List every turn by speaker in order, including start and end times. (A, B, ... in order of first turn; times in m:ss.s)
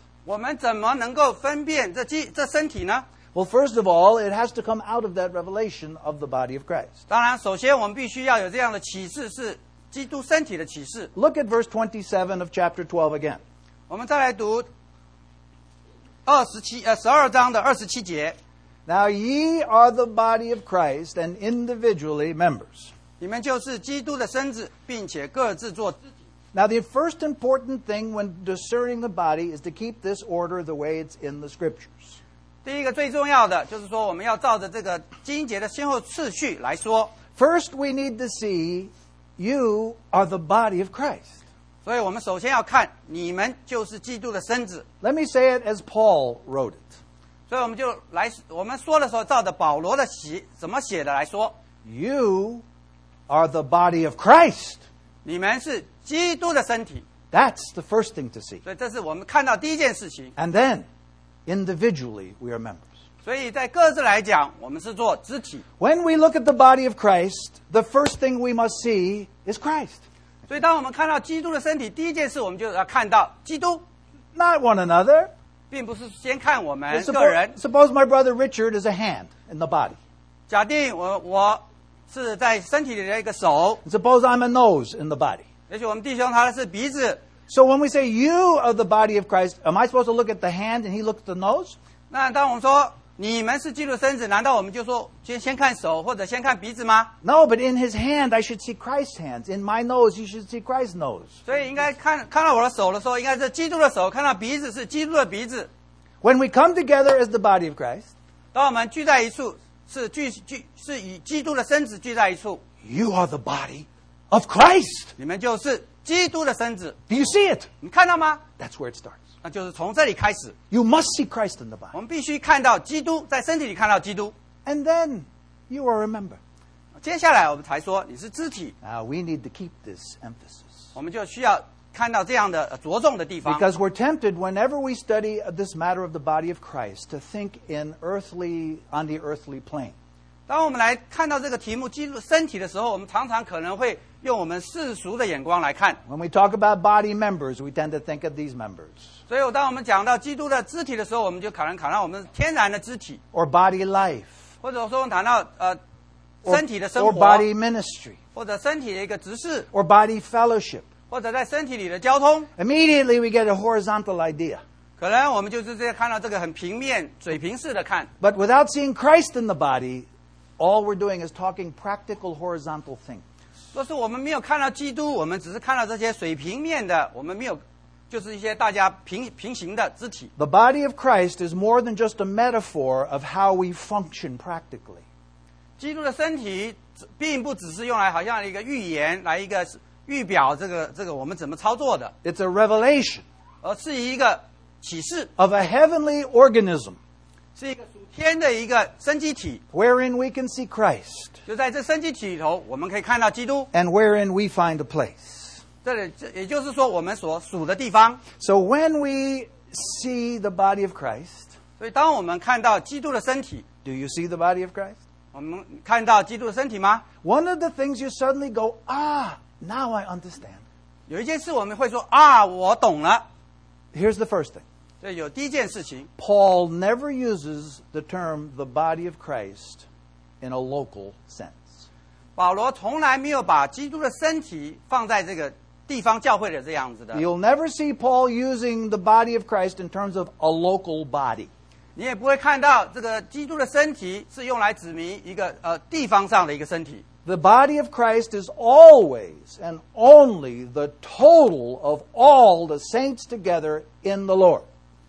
0:00.2-0:03.0 A
0:03.3-0:07.0 B
0:07.1-0:11.1 A
0:11.1-0:13.4 B
0:13.9-0:14.7 A
0:16.2-0:18.4 A
0:18.8-0:22.9 B
0:23.2-0:26.1 A
0:26.5-0:32.2 B
0:32.6-0:37.1 A
0:37.3-0:41.4 B
0:41.8-0:44.8 A
0:45.0-0:47.0 B
0:47.5-0:51.5 A
0:51.8-0:52.6 B
0:53.3-0:54.8 B
0:55.2-0:57.0 A
0:57.3-0:58.6 B
0:58.6-1:00.3 A
1:00.4-1:00.8 B
1:01.4-1:02.8 B
1:03.2-1:05.6 A
1:05.8-1:10.0 B
1:10.5-1:13.8 A
1:14.3-1:15.3 B
1:15.7-1:17.5 A
1:16.9-1:20.0 B
1:20.5-1:23.8 A
1:23.8-1:25.4 B
1:25.7-1:27.2 A
1:27.5-1:31.8 B
1:32.1-1:37.1 A
1:37.2-1:41.4 B
1:41.4-1:45.7 A
1:46.2-1:48.1 B
1:48.5-1:52.6 A
1:52.8-1:55.1 B
1:55.2-1:57.0 A
1:57.1-1:57.7 B
1:57.8-1:58.4 A
1:58.6-1:59.2 B
1:59.4-2:00.5 A
2:00.7-2:01.9 B
2:01.9-2:04.3 A
2:04.6-2:06.4 B
2:07.0-2:08.7 A
2:08.8-2:10.8 B
2:10.9-2:13.6 A
2:13.4-2:19.9 B
2:20.5-2:26.0 A
2:26.1-2:29.0 B
2:29.3-2:33.2 A
2:33.3-2:34.4 B
2:34.6-2:35.8 A
2:36.4-2:37.5 A
2:36.4-2:38.2 B
2:38.4-2:39.7 A
2:39.7-2:40.9 B
2:41.1-2:42.5 A
2:42.6-2:44.6 B
2:45.0-2:48.1 A
2:48.2-2:50.1 B
2:50.6-2:53.2 B
2:53.7-3:00.3 A
3:00.4-3:05.0 B
3:05.8-3:12.1 A
3:12.2-3:13.2 B
3:13.6-3:15.3 A
3:15.4-3:17.0 B
3:17.6-3:19.6 A
3:19.7-3:21.4 B
3:21.5-3:23.7 A
3:23.7-3:25.6 B
3:25.8-3:28.2 A
3:28.4-3:31.6 B
3:31.8-3:33.6 A
3:33.8-3:35.0 B
3:35.3-3:37.0 A
3:37.2-3:40.6 B
3:41.1-3:43.2 A
3:43.9-3:44.6 B
3:45.0-3:46.1 A
3:46.2-3:49.8 B
3:50.4-3:51.8 B
3:52.4-3:57.2 A
3:57.1-4:01.5 B
4:02.0-4:07.0 A
4:07.2-4:14.6 B